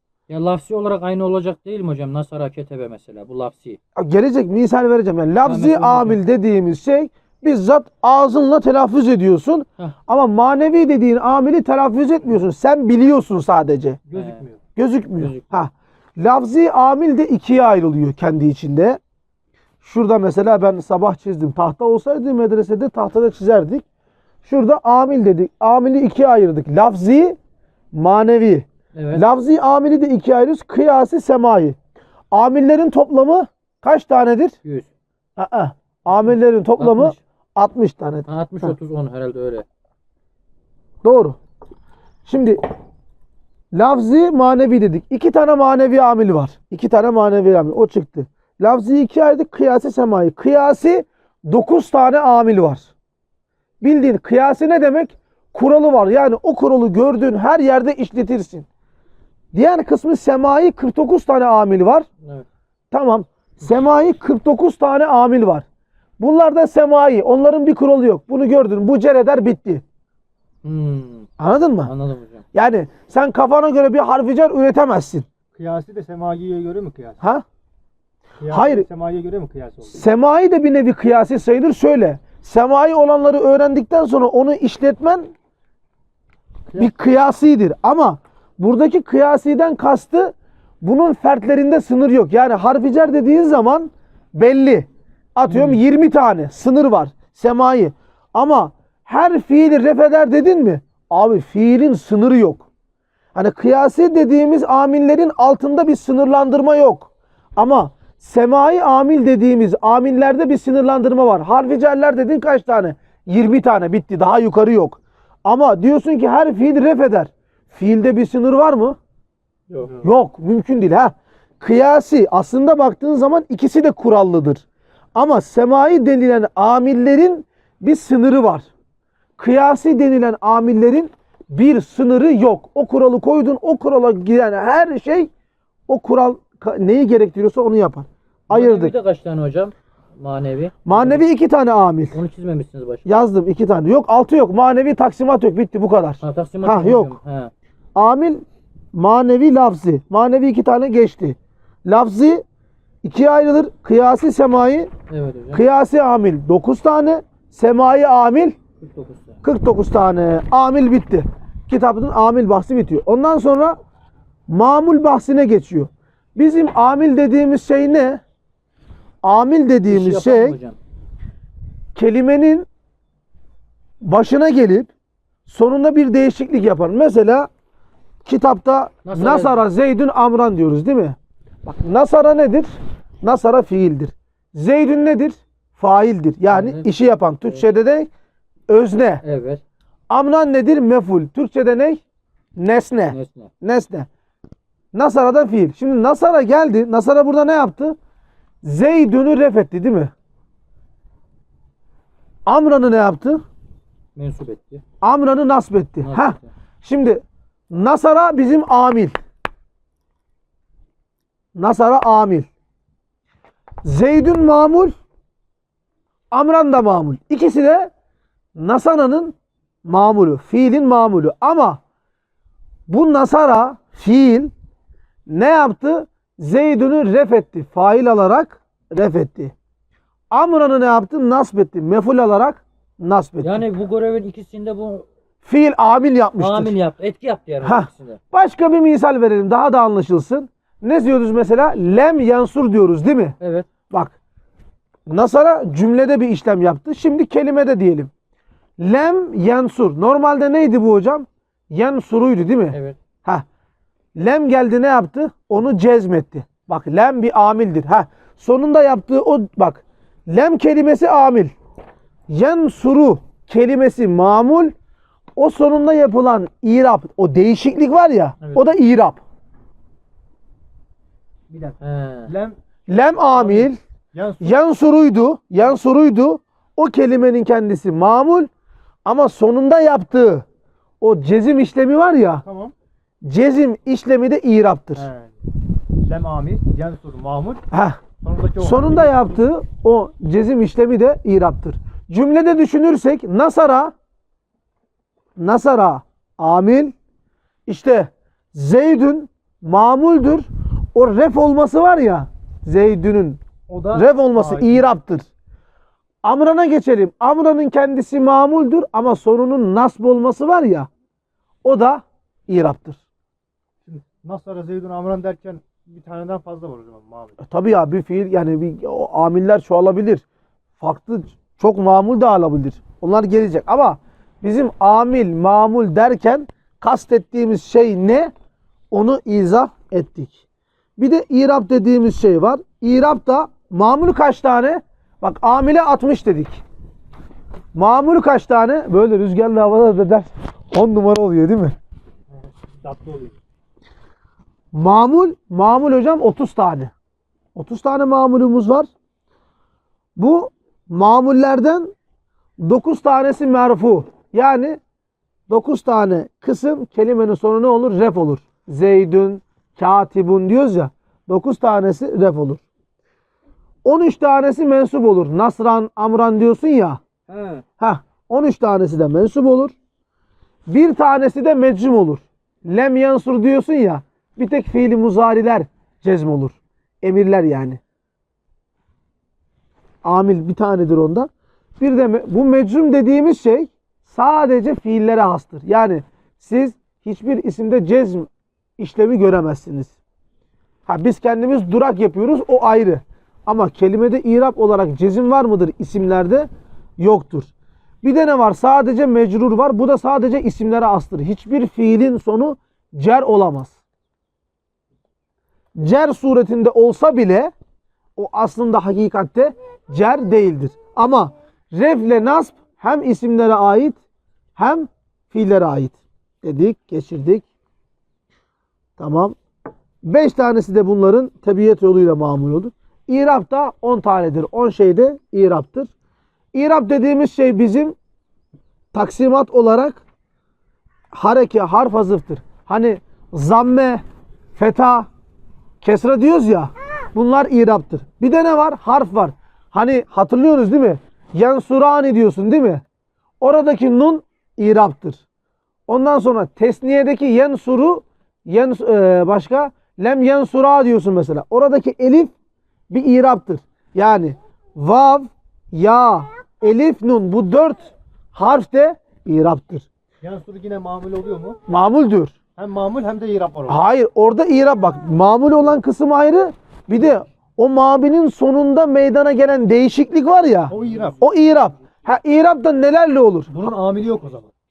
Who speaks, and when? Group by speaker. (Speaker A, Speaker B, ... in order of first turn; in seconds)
Speaker A: 0.3-3.8, 5.4-6.2, 14.1-14.4, 15.1-15.6, 28.9-29.2, 34.6-34.9, 36.8-37.2, 38.3-39.6, 70.6-71.3, 71.8-72.4, 95.5-95.8, 138.5-141.2, 142.1-143.1, 146.2-147.5, 155.1-155.6, 158.8-159.4, 169.9-170.8, 179.1-179.6, 186.5-186.9, 189.2-189.6, 193.1-193.5, 204.2-204.8, 206.0-206.5, 233.4-235.0, 236.4-238.2, 243.4-243.7, 252.7-253.0, 271.8-272.3, 367.3-367.6
Speaker B: 4.0-14.0, 14.8-19.0, 19.8-23.8, 24.4-27.4, 27.9-31.8, 32.3-34.5, 35.4-38.7, 41.0-41.4, 42.2-42.6, 43.7-52.9, 53.8-58.7, 59.5-62.1, 62.9-65.6, 66.2-69.8, 71.4-71.9, 72.5-75.2, 78.5-78.8, 79.9-85.3, 86.8-102.7, 103.3-119.0, 119.9-128.7, 129.4-135.3, 135.9-138.9, 140.8-142.2, 143.1-147.1, 147.9-148.4, 148.9-152.4, 153.0-154.9, 155.5-158.6, 159.4-163.8, 164.5-168.2, 169.2-170.6, 171.9-172.7, 174.0-174.9, 175.4-177.5, 178.2-188.1, 188.7-189.2, 190.1-192.0, 192.6-194.1, 194.9-197.9, 198.6-200.1, 202.4-203.4, 205.0-209.1, 211.5-212.5, 213.8-214.9, 216.3-217.9, 218.6-221.8, 222.9-224.5, 225.3-229.5, 230.3-233.6, 235.4-236.7, 237.6-243.3, 243.9-244.2, 245.1-248.1, 248.8-253.4, 254.2-261.5, 262.3-264.7, 265.4-269.2, 272.9-273.8, 274.4-278.5, 279.0-280.4, 281.0-282.4, 283.2-285.1, 287.7-288.0, 288.6-293.9, 295.4-296.9, 297.7-303.4, 303.9-305.3, 306.2-310.9, 311.6-313.0, 317.4-320.2, 320.8-328.3, 328.9-330.4, 331.0-336.6, 337.7-341.7, 344.7-346.9, 347.5-348.9, 350.2-351.9, 352.6-354.8, 355.5-362.6, 363.8-367.0, 367.8-369.7, 370.7-377.8, 380.0-390.0, 390.9-396.5, 397.0-397.5, 398.0-403.8, 405.8-407.5, 408.1-414.0, 414.6-417.4, 419.0-419.4, 420.0-425.9, 426.5-427.9, 428.9-430.0, 431.1-434.0, 434.5-435.1, 435.8-442.8, 443.4-445.2, 445.9-452.3, 452.9-459.9, 461.7-462.3, 463.7-473.5
Speaker C: 14.1-14.6, 75.5-77.2, 78.4-80.0, 86.7-87.0, 271.5-272.6, 273.2-274.6, 282.4-282.7, 284.9-285.4, 285.9-287.6, 288.2-289.4, 303.7-304.9, 313.9-317.4, 342.7-343.3, 460.2-461.6, 462.6-463.8, 470.7-471.3, 473.5-474.5